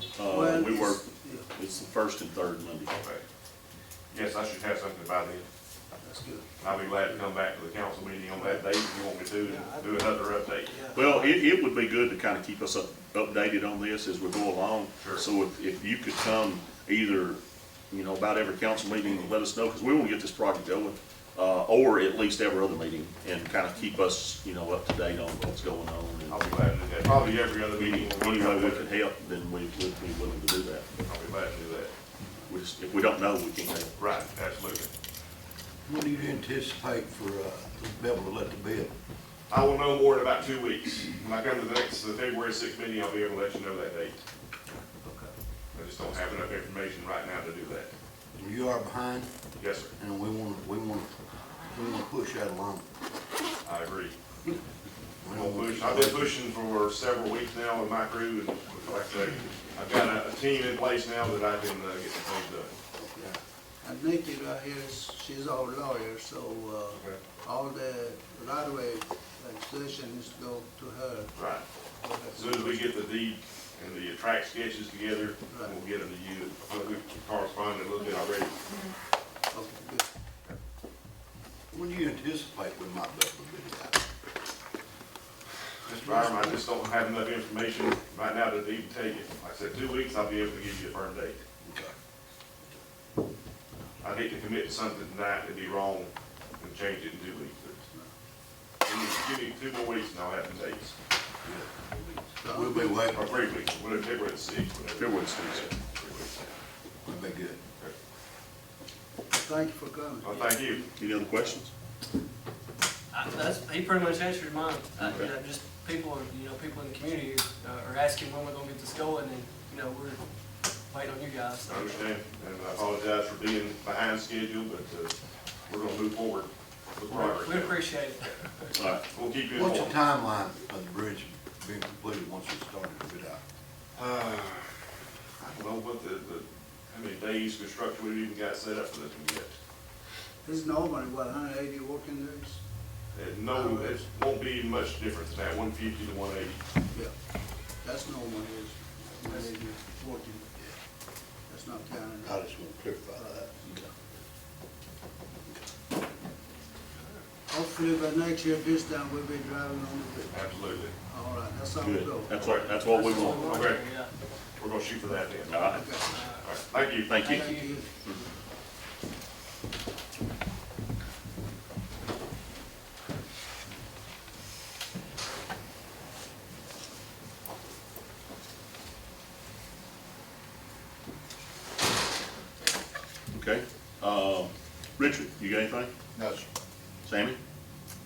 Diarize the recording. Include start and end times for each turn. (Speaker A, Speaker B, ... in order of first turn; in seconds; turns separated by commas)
Speaker A: 0.2-2.9, Speaker B: 0.2-1.5, Speaker C: 2.9-3.2, Speaker C: 4.1-5.5, Speaker B: 6.0-6.5, Speaker C: 6.6-10.8, Speaker B: 8.3-8.6, Speaker B: 9.4-11.3, Speaker A: 10.9-17.4, Speaker C: 15.0-15.3, Speaker A: 17.9-26.4, Speaker C: 26.3-28.9, Speaker A: 27.7-30.9, Speaker C: 31.1-31.9, Speaker A: 32.5-33.9, Speaker C: 34.0-34.9, Speaker D: 35.9-38.9, Speaker C: 39.5-44.2, Speaker E: 45.0-45.3, Speaker C: 45.7-47.9, Speaker D: 48.4-49.3, Speaker C: 49.6-49.9, Speaker D: 50.0-51.1, Speaker D: 51.6-52.9, Speaker C: 53.6-54.1, Speaker D: 55.2-56.4, Speaker C: 55.3-62.7, Speaker B: 63.1-71.3, Speaker C: 66.9-67.2, Speaker C: 71.3-71.6, Speaker B: 72.0-73.0, Speaker C: 72.3-78.6, Speaker B: 75.5-75.8, Speaker B: 79.5-80.0, Speaker D: 81.7-84.0, Speaker C: 85.9-91.4, Speaker B: 86.1-86.6, Speaker D: 91.6-91.9, Speaker C: 94.0-97.8, Speaker C: 98.8-101.0, Speaker D: 101.4-101.7, Speaker B: 102.4-103.0, Speaker D: 102.5-103.3, Speaker C: 103.1-106.5, Speaker A: 105.0-105.7, Speaker D: 107.0-107.6, Speaker B: 109.3-110.9, Speaker C: 110.2-110.9, Speaker A: 111.0-111.7, Speaker E: 113.1-120.2, Speaker C: 115.0-115.3, Speaker E: 120.9-122.0, Speaker C: 121.7-125.2, Speaker C: 125.7-127.8, Speaker E: 127.1-128.8, Speaker A: 128.8-129.0, Speaker C: 129.1-130.0, Speaker D: 129.5-133.4, Speaker C: 133.9-134.7, Speaker C: 135.4-139.5, Speaker B: 140.4-142.6, Speaker C: 143.1-146.6, Speaker B: 143.5-144.1, Speaker B: 147.8-150.5, Speaker E: 149.3-149.5, Speaker B: 151.5-152.4, Speaker D: 152.2-153.4, Speaker B: 153.2-153.6, Speaker B: 157.5-160.3, Speaker C: 160.3-160.9, Speaker B: 161.1-162.3, Speaker A: 161.8-163.5, Speaker C: 162.3-163.8, Speaker E: 162.8-164.1, Speaker C: 164.6-167.1, Speaker A: 165.5-165.9, Speaker B: 165.7-166.2, Speaker E: 166.0-166.4, Speaker A: 167.1-167.5, Speaker B: 167.2-167.9, Speaker E: 167.3-167.8, Speaker A: 183.3-185.9, Speaker D: 186.2-186.5, Speaker A: 187.1-187.4